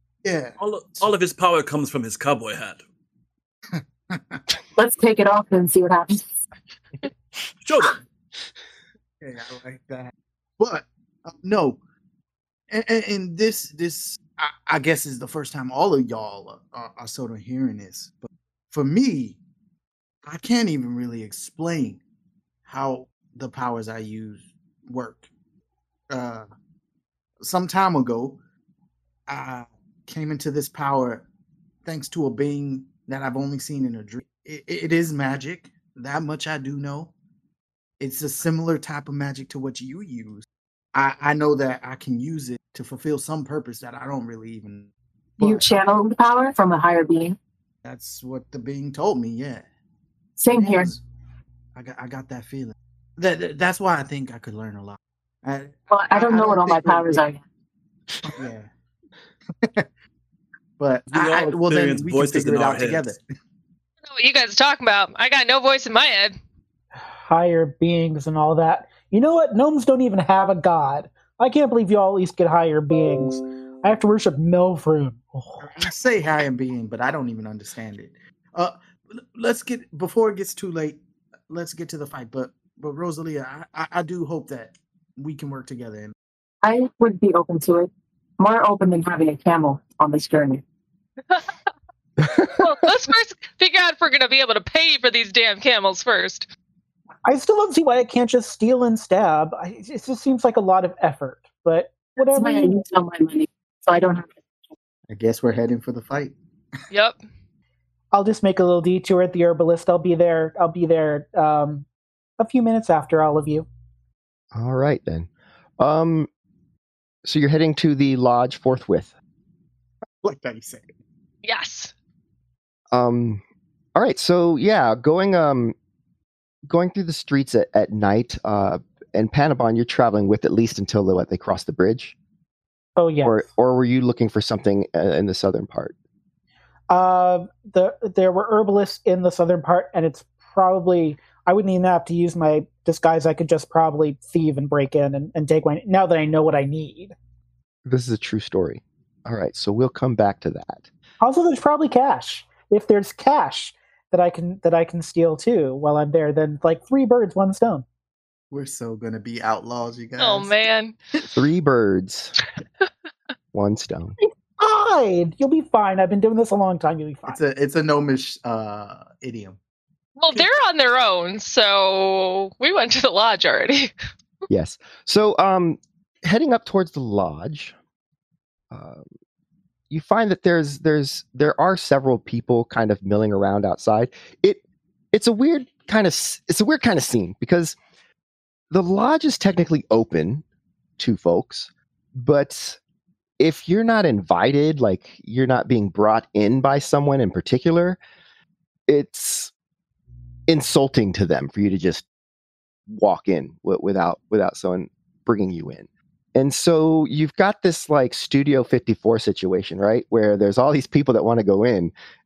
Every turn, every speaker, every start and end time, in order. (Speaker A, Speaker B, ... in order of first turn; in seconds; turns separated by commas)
Speaker A: 0.2-1.1, Speaker B: 0.6-2.8, Speaker A: 3.7-4.4, Speaker C: 4.8-6.3, Speaker B: 7.6-8.0, Speaker A: 9.2-11.8, Speaker A: 12.7-19.4, Speaker A: 20.2-22.0, Speaker A: 22.7-25.3, Speaker A: 26.1-26.5, Speaker A: 27.4-28.4, Speaker A: 29.3-31.3, Speaker A: 31.9-37.1, Speaker A: 38.0-45.7, Speaker C: 45.4-47.4, Speaker A: 47.9-49.7, Speaker C: 50.4-51.0, Speaker A: 50.5-51.0, Speaker A: 51.8-57.2, Speaker C: 55.9-57.4, Speaker A: 58.2-58.7, Speaker A: 59.6-59.9, Speaker A: 60.8-63.2, Speaker B: 61.1-63.1, Speaker D: 64.1-66.3, Speaker E: 67.2-75.8, Speaker A: 75.6-86.2, Speaker C: 86.6-90.6, Speaker F: 92.2-92.7, Speaker D: 92.6-96.5, Speaker E: 97.2-102.8, Speaker C: 102.2-104.4, Speaker A: 105.1-106.4, Speaker D: 106.9-107.2, Speaker E: 108.1-111.9, Speaker E: 112.4-113.7, Speaker F: 114.5-116.3, Speaker F: 117.2-119.1, Speaker A: 120.2-120.9, Speaker D: 121.4-121.9, Speaker F: 122.9-123.4, Speaker F: 124.0-125.8, Speaker F: 126.7-132.2, Speaker E: 133.0-133.5, Speaker F: 133.2-135.9, Speaker E: 136.9-147.2, Speaker F: 147.9-150.9, Speaker E: 151.2-157.8, Speaker A: 158.5-160.6, Speaker D: 160.2-160.9, Speaker F: 161.3-162.3, Speaker F: 163.5-164.2, Speaker E: 164.6-167.4, Speaker A: 167.3-169.6, Speaker D: 170.2-173.9, Speaker F: 174.5-177.8, Speaker F: 178.7-179.1, Speaker F: 179.9-184.6, Speaker F: 185.1-187.8, Speaker F: 188.7-190.4, Speaker F: 191.0-192.8, Speaker F: 193.4-198.0, Speaker F: 198.9-199.5, Speaker F: 200.5-202.1, Speaker F: 202.9-211.9